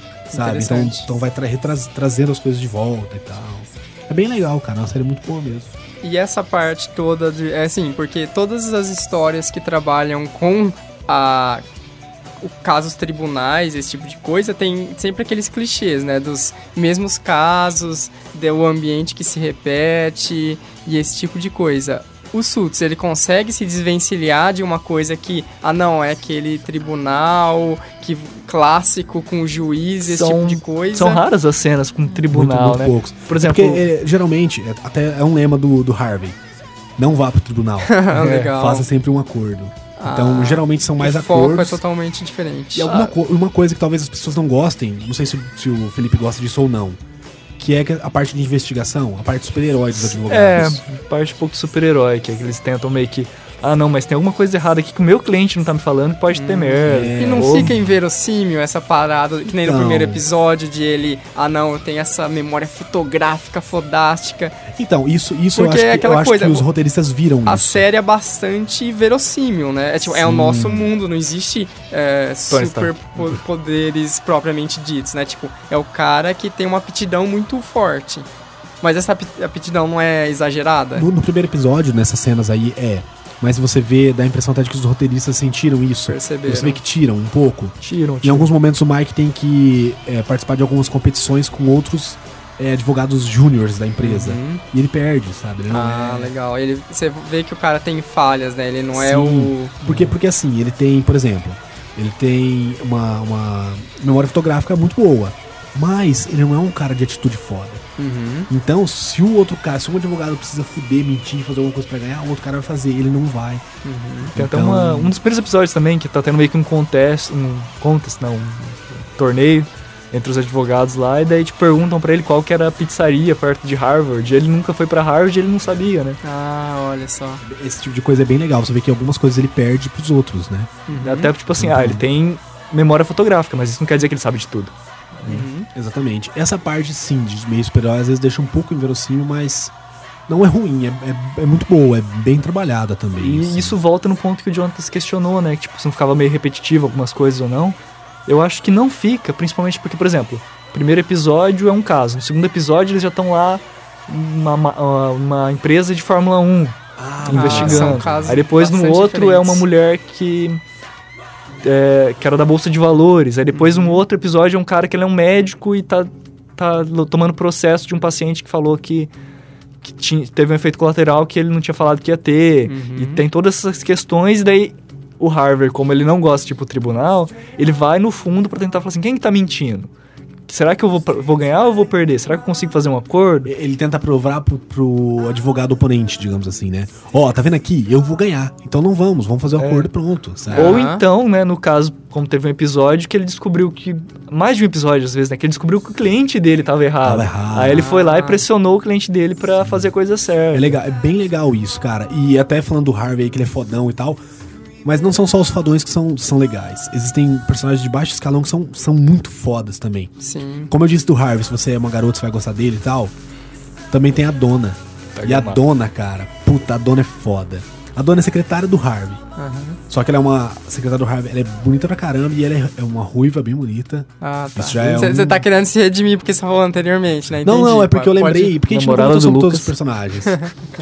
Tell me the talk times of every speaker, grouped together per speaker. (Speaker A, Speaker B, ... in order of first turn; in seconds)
Speaker A: 0.3-5.7, 32.3-36.4, 37.0-41.8, 42.8-47.0, 47.6-50.8, 56.8-57.8, 59.5-60.2, 64.7-67.8, 70.1-70.9, 80.9-96.3, 98.9-107.8, 108.5-113.6, 114.3-115.2, 127.4-130.8, 131.5-132.0, 135.7-139.7, 140.3-143.8, 157.0-158.4, 183.4-190.8, 197.0-197.9, 199.6-199.9, 200.5-204.2, 204.8-210.1, 210.7-213.1, 213.9-219.2, 219.9-225.4, 227.4-230.4
Speaker B: 0.3-1.1, 6.0-11.6, 12.4-31.2, 37.9-38.9, 40.0-43.0, 56.3-64.6, 65.5-66.7, 67.4-78.3, 78.8-81.1, 86.0-86.8, 94.0-94.6, 95.7-100.0, 108.0-108.5, 113.8-114.3, 126.2-127.4, 130.9-131.3, 135.3-135.7, 157.3-159.7, 163.5-164.0, 172.7-173.2, 190.5-191.0, 197.7-198.4, 210.2-210.7, 219.4-219.8, 224.2-228.6
Speaker C: 30.1-33.9, 38.1-38.5, 49.9-57.7, 72.5-72.9, 87.8-88.5, 114.4-126.2, 131.0-135.4, 143.2-160.6, 161.6-169.1, 169.8-179.9, 180.5-183.5, 189.6-189.9, 190.5-200.8, 215.1-215.6, 228.7-229.7